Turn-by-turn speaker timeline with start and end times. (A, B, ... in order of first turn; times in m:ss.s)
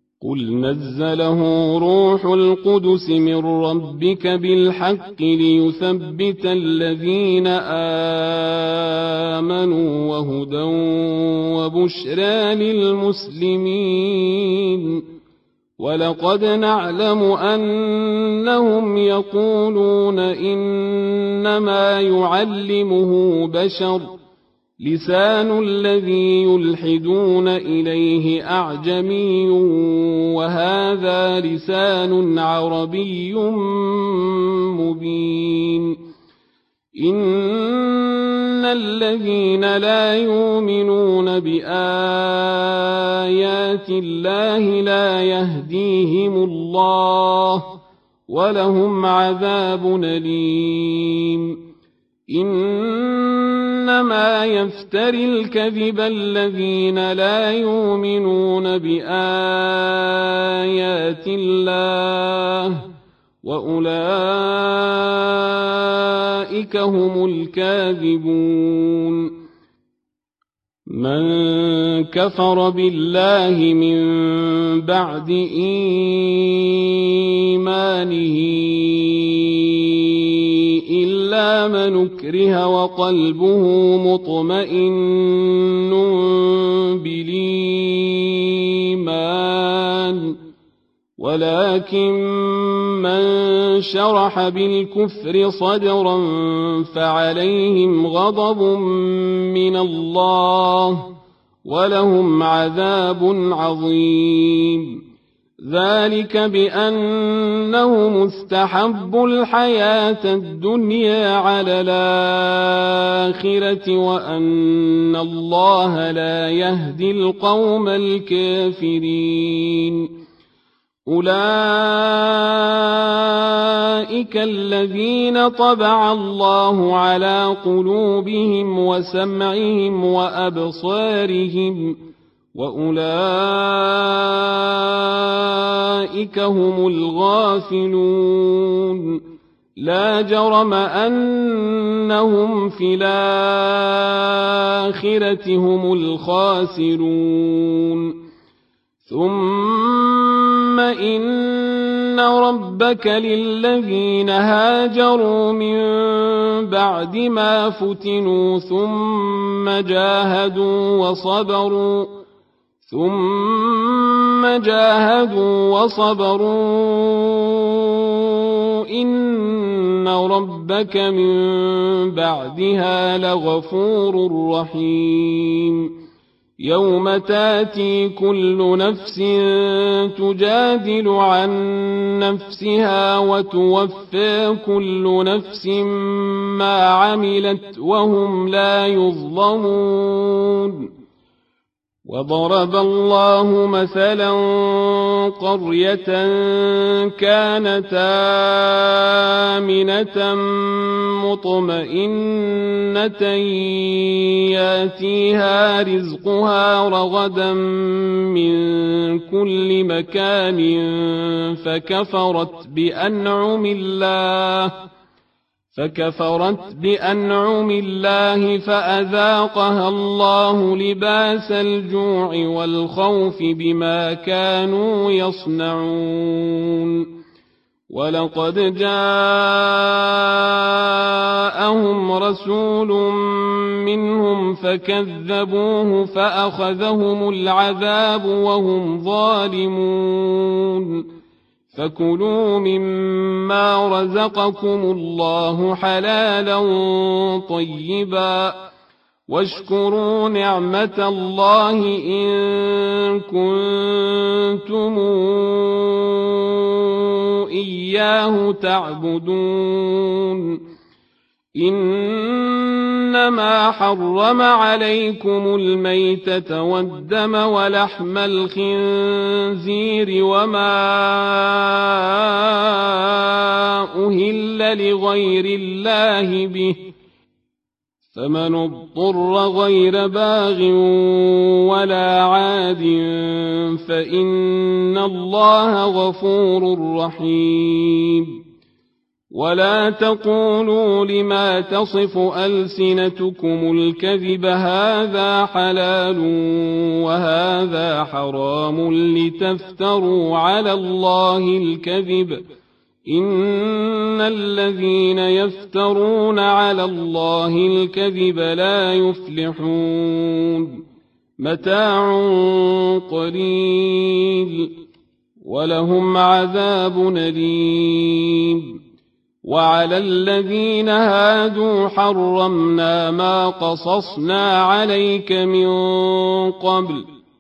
0:00.2-0:15.0 A
0:15.8-0:24.1 A
0:24.8-0:36.0 A
0:37.0-0:47.7 A
0:48.3-0:51.6 A
0:52.3-1:02.8 A
1:03.4-1:09.3 A
1:10.9-1:30.4 A
1:31.2-1:41.1 A
1:41.6-1:45.0 A
1:45.6-2:00.1 A
2:01.1-2:12.0 A
2:12.6-2:19.2 A
2:19.8-2:28.2 A
2:29.0-2:42.2 A
2:42.8-2:55.9 A
2:56.6-3:10.9 A
3:12.1-3:34.8 A
3:35.7-3:47.1 A
3:47.9-4:01.1 A
4:01.7-4:08.6 A
4:09.3-4:20.6 A
4:21.6-4:36.8 A
4:38.1-4:48.4 A
4:49.3-5:02.4 A
5:03.1-5:10.8 A
5:11.4-5:14.7 A
5:15.4-5:18.8 A
5:19.4-5:27.1 A